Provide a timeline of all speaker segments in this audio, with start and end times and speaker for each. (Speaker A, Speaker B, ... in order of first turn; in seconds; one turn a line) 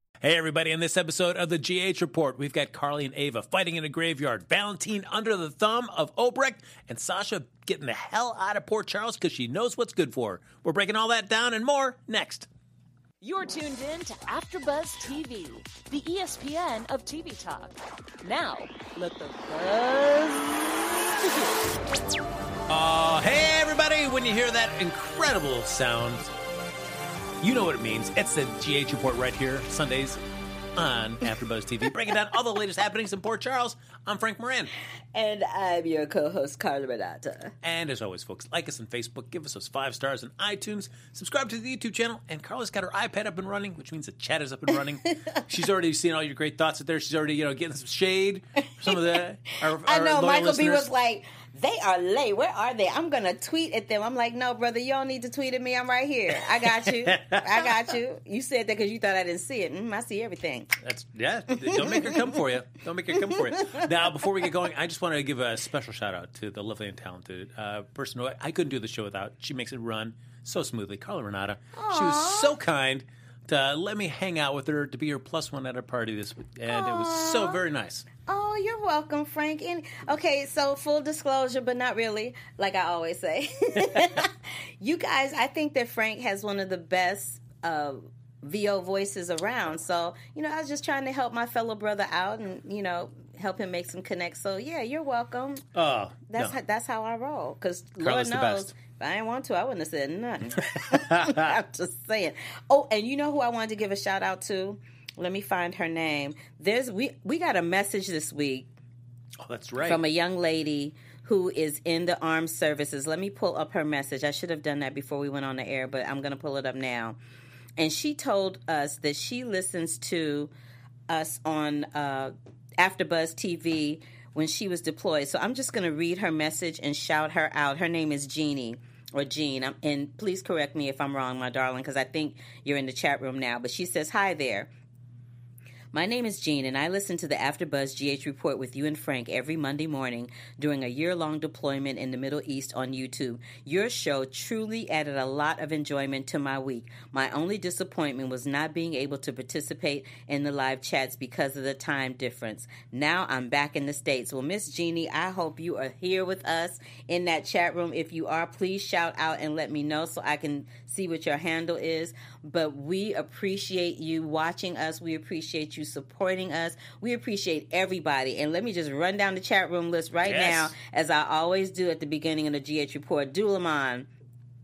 Speaker A: 0.2-12.5
Speaker B: 13.2-21.5
Speaker A: 22.7-26.3
Speaker A: 27.4-30.2
Speaker A: 30.8-34.7
Speaker C: 35.1-37.5
Speaker A: 37.6-50.9
Speaker C: 49.8-60.7
Speaker A: 57.0-57.8
Speaker A: 60.8-78.0
Speaker C: 61.6-62.2
Speaker C: 71.7-72.5
Speaker C: 76.7-77.6
Speaker C: 78.3-95.6
Speaker A: 95.7-96.5
Speaker C: 96.3-108.7
Speaker A: 98.0-98.7
Speaker A: 100.9-101.4
Speaker A: 109.4-110.0
Speaker C: 109.8-117.2
Speaker C: 117.8-120.5
Speaker C: 121.1-134.7
Speaker C: 135.9-174.1
Speaker A: 170.2-170.7